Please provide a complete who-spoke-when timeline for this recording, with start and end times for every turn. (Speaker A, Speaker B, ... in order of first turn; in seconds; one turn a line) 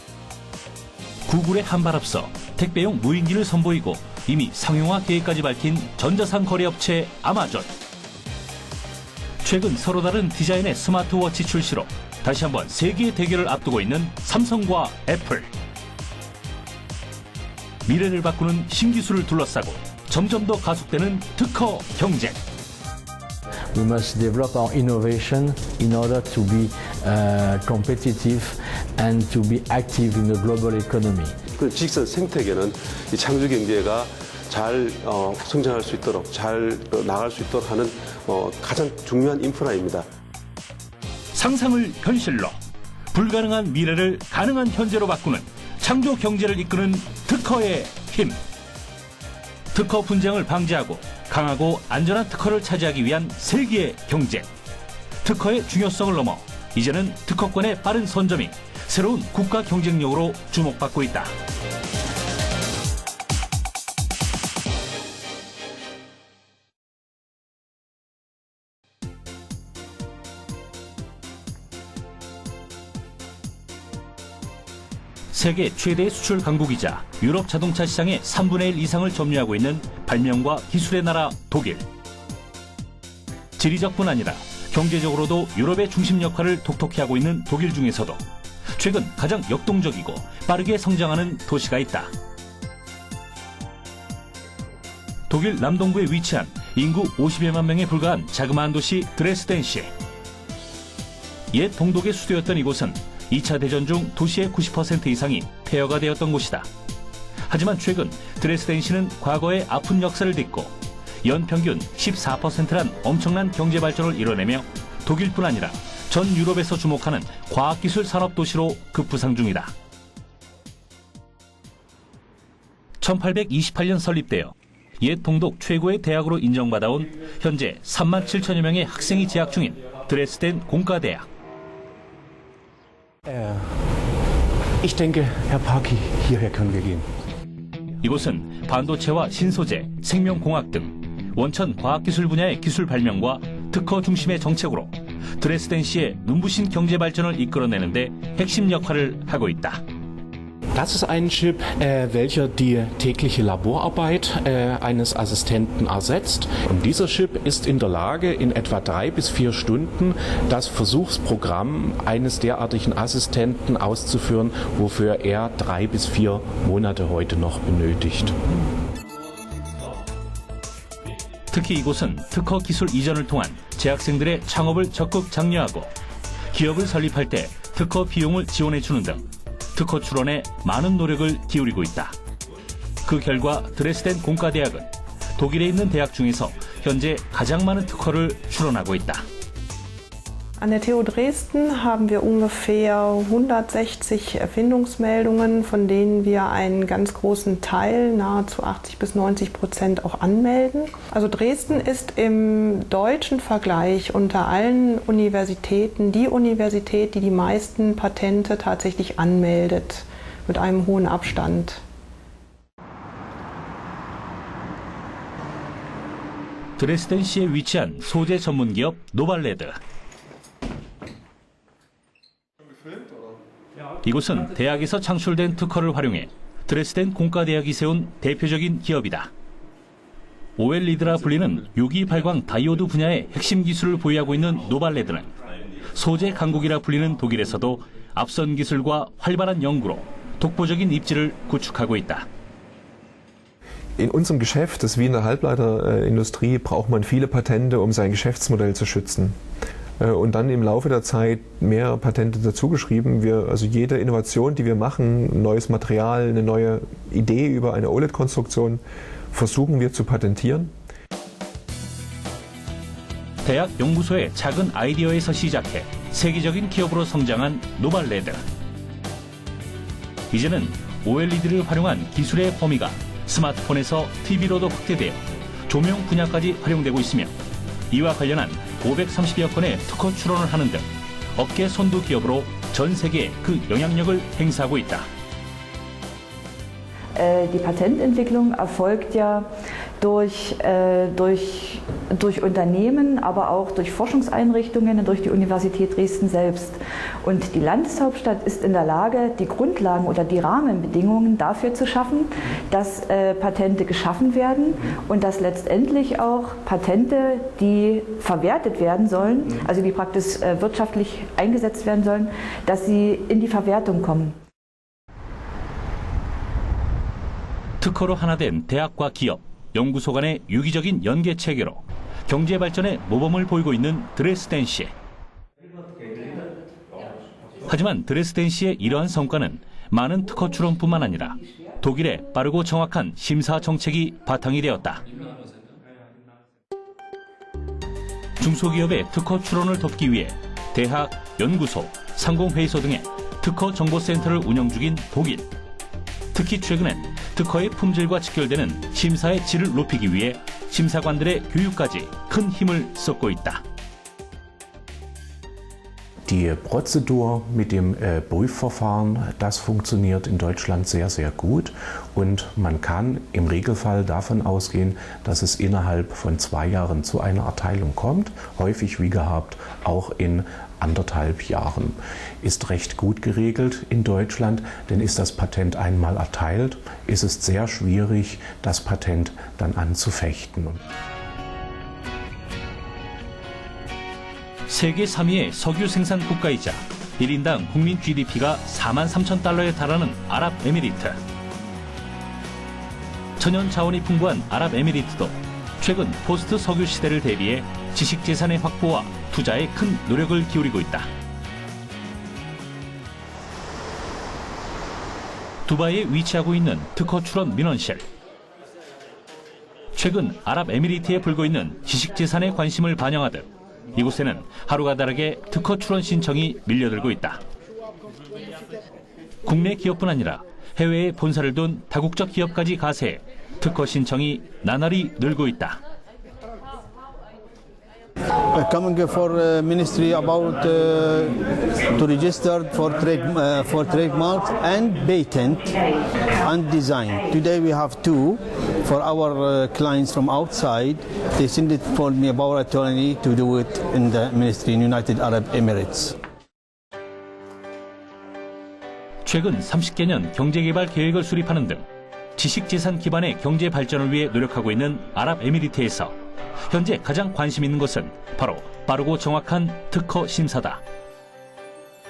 Speaker A: 1.3-7.7
Speaker A: 9.4-15.5
Speaker A: 17.9-22.4
Speaker B: 23.7-31.4
Speaker C: 31.6-40.0
Speaker A: 41.3-42.6
Speaker A: 43.1-48.4
Speaker A: 49.7-54.5
Speaker A: 55.2-61.3
Speaker A: 75.3-81.9
Speaker A: 83.6-92.1
Speaker A: 95.3-99.9
Speaker A: 101.5-106.7
Speaker A: 107.5-119.7
Speaker A: 123.0-131.3
Speaker D: 133.3-134.0
Speaker D: 134.8-137.1
Speaker A: 138.0-149.8
Speaker D: 150.7-168.4
Speaker A: 171.5-175.9
Speaker A: 176.5-182.2
Speaker A: 183.1-189.3
Speaker E: 190.6-211.8
Speaker A: 216.8-219.8
Speaker A: 224.0-229.3
Speaker A: 230.6-235.3
Speaker A: 235.9-242.3
Speaker F: 244.0-249.4
Speaker F: 250.0-260.8
Speaker A: 263.4-268.4
Speaker A: 270.3-277.3
Speaker A: 277.9-285.1
Speaker G: 287.1-314.4
Speaker A: 317.8-324.9
Speaker A: 327.7-335.0
Speaker A: 338.4-345.5
Speaker A: 346.3-353.6
Speaker D: 356.3-380.8
Speaker A: 384.7-391.2
Speaker A: 393.4-401.1
Speaker A: 405.7-408.0
Speaker A: 409.9-417.4
Speaker A: 419.4-425.8
Speaker H: 428.5-446.2
Speaker A: 449.2-451.9
Speaker A: 452.4-456.2
Speaker A: 456.7-460.8